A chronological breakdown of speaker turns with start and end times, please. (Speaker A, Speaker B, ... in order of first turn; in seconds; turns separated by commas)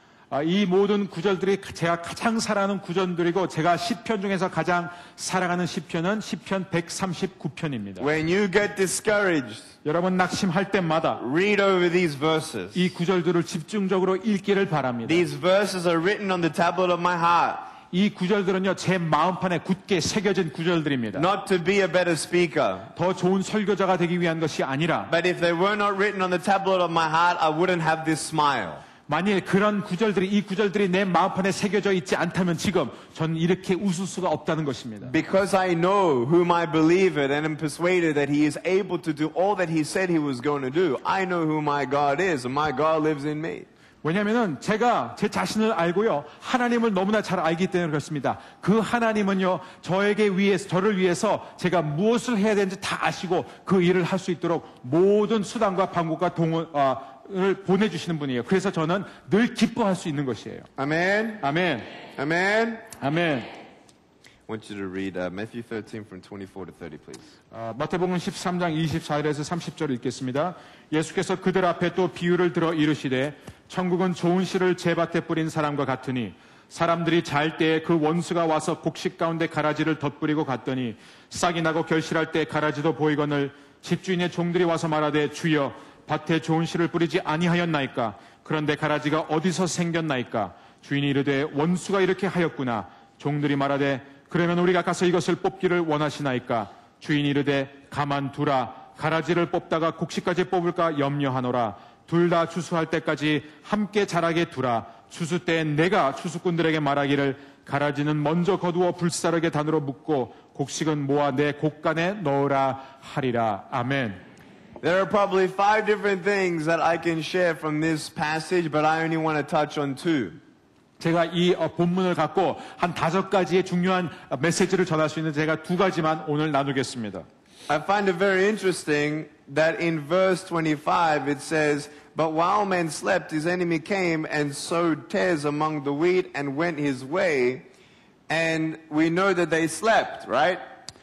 Speaker A: 0.3-8.1, Speaker B: 8.0-9.7, Speaker A: 9.8-11.2, Speaker B: 11.2-12.9, Speaker A: 12.7-15.2, Speaker B: 15.0-17.7, Speaker A: 17.9-21.3, Speaker B: 21.1-22.9, Speaker A: 22.9-25.1, Speaker B: 25.1-28.8, Speaker A: 29.1-35.1, Speaker B: 35.0-43.7, Speaker A: 44.0-60.7, Speaker B: 60.8-61.4, Speaker A: 61.4-61.9, Speaker B: 62.1-62.8, Speaker A: 63.0-63.5, Speaker B: 64.5-67.3, Speaker A: 67.5-114.2, Speaker B: 114.8-120.4, Speaker A: 121.0-127.2, Speaker B: 127.7-137.6, Speaker B: 138.3-140.6